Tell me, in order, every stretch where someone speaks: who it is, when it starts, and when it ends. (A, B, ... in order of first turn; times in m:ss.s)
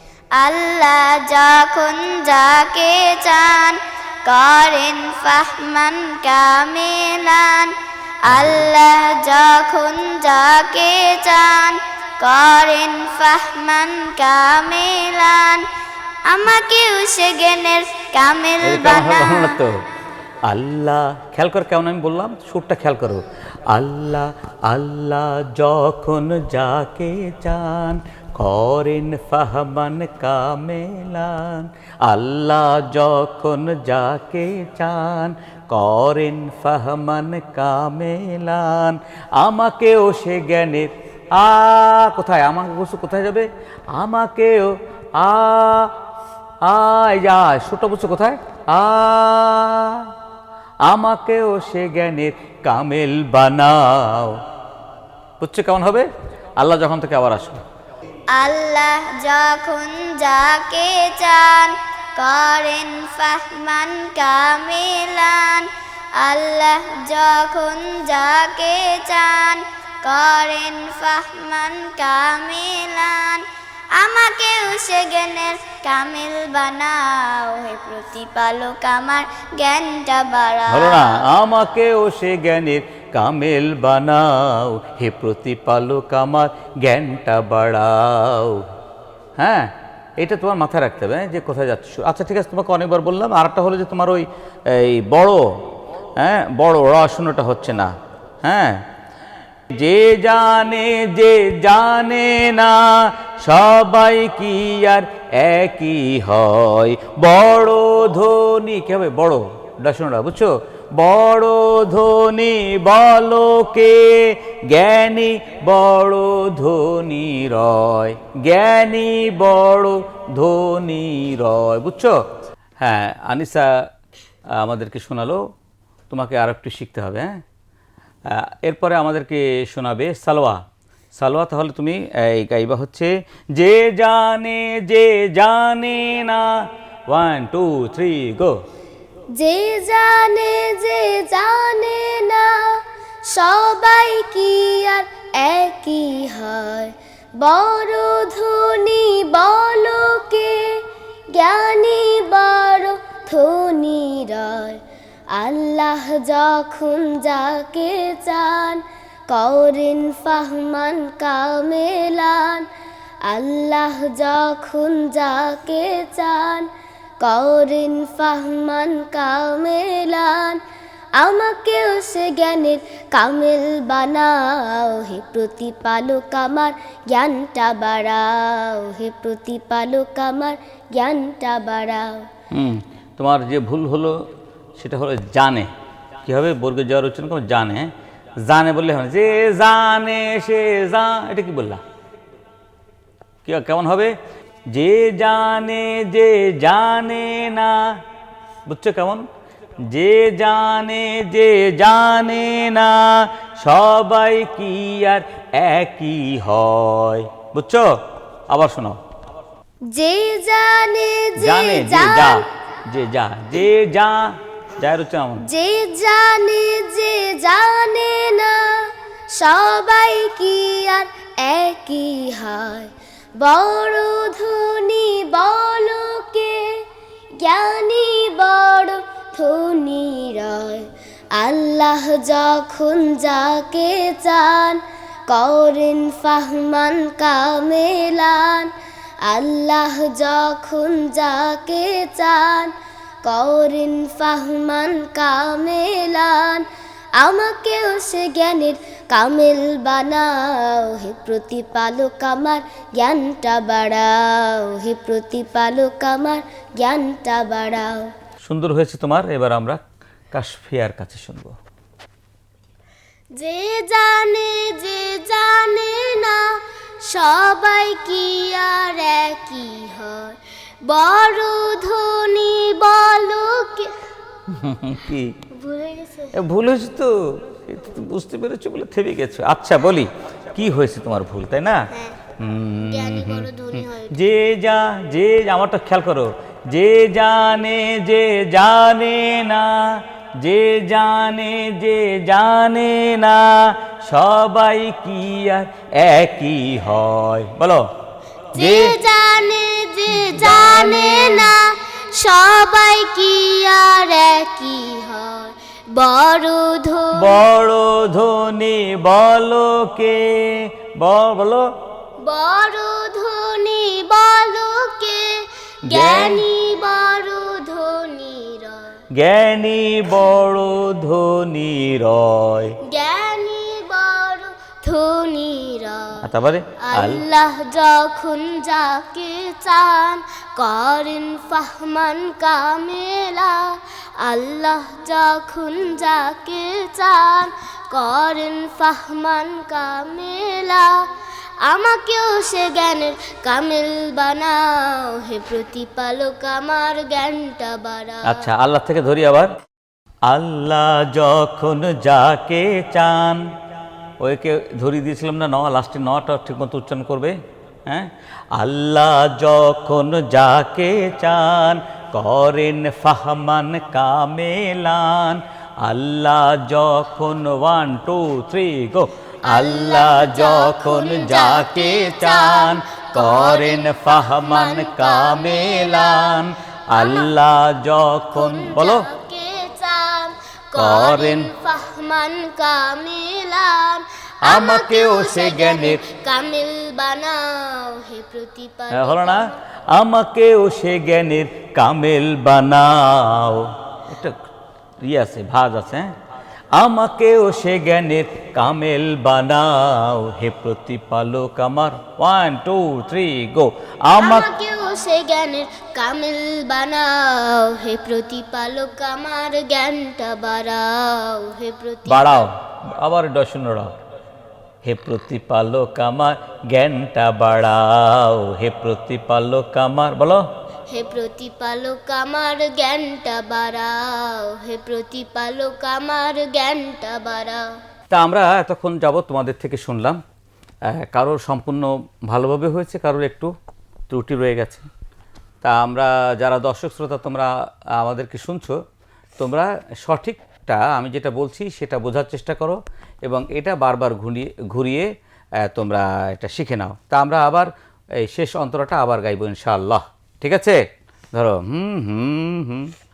0:00.3-0:15.7 A
0:08.3-0:08.6 B
0:16.3-0:19.6 A
0:18.6-0:19.8 B
0:20.5-0:46.0 B
0:46.6-0:50.1 B
0:50.9-0:54.4 B
0:55.4-0:57.6 B
0:58.3-1:21.2 A
1:20.7-1:28.7 B
1:29.4-1:35.4 B
1:36.2-1:37.9 B
1:38.4-1:38.8 B
1:39.7-2:02.2 B
2:02.8-2:03.7 B
2:04.6-2:05.4 B
2:06.1-2:07.4 B
2:08.3-2:10.6 B
2:11.2-2:16.5 B
2:17.1-2:18.6 B
2:19.3-2:34.8 C
2:35.3-2:42.7 C
2:43.2-2:46.7 C
2:47.2-2:50.6 C
2:51.2-3:02.3 C
3:02.5-3:05.7 B
3:06.3-3:11.8 B
3:13.4-3:14.2 B
3:14.7-3:18.0 B
3:18.7-3:19.3 B
3:19.9-3:28.0 B
3:28.5-3:29.0 B
3:29.9-3:32.4 C
3:31.4-3:35.4 B
3:35.4-3:46.8 C
3:47.4-3:58.7 C
3:59.2-4:18.1 C
4:18.4-4:19.8 B
4:20.3-4:21.6 B
4:23.3-4:34.0 C
4:34.5-4:35.4 B
4:35.5-4:36.4 C
4:36.3-4:57.9 B
4:42.8-4:44.2 C
4:58.6-4:58.9 B
4:58.6-5:07.4 C
5:00.1-5:01.5 B
5:07.2-5:11.7 B
5:12.2-5:19.0 C
5:15.9-5:16.5 B
5:19.1-5:22.8 B
5:22.8-5:26.3 C
5:26.2-5:27.2 B
5:26.8-5:41.1 C
5:41.6-5:48.5 C
5:48.2-5:49.5 B
5:50.3-5:53.5 B
5:54.2-6:19.1 B
6:09.5-6:16.4 C
6:16.9-6:17.3 C
6:18.4-6:29.6 C
6:20.8-6:21.5 B
6:24.4-6:26.0 B
6:28.9-6:34.4 B
6:35.0-6:36.1 B
6:36.7-6:44.5 B
6:44.2-6:52.5 C
6:52.1-6:54.0 B
6:54.8-7:00.5 B
7:00.9-7:07.7 C
7:08.1-7:10.2 B
7:10.9-7:13.5 B
7:14.1-7:14.9 B
7:15.6-7:18.8 B
7:19.4-7:25.1 B
7:25.6-7:30.8 B
7:31.3-7:32.9 B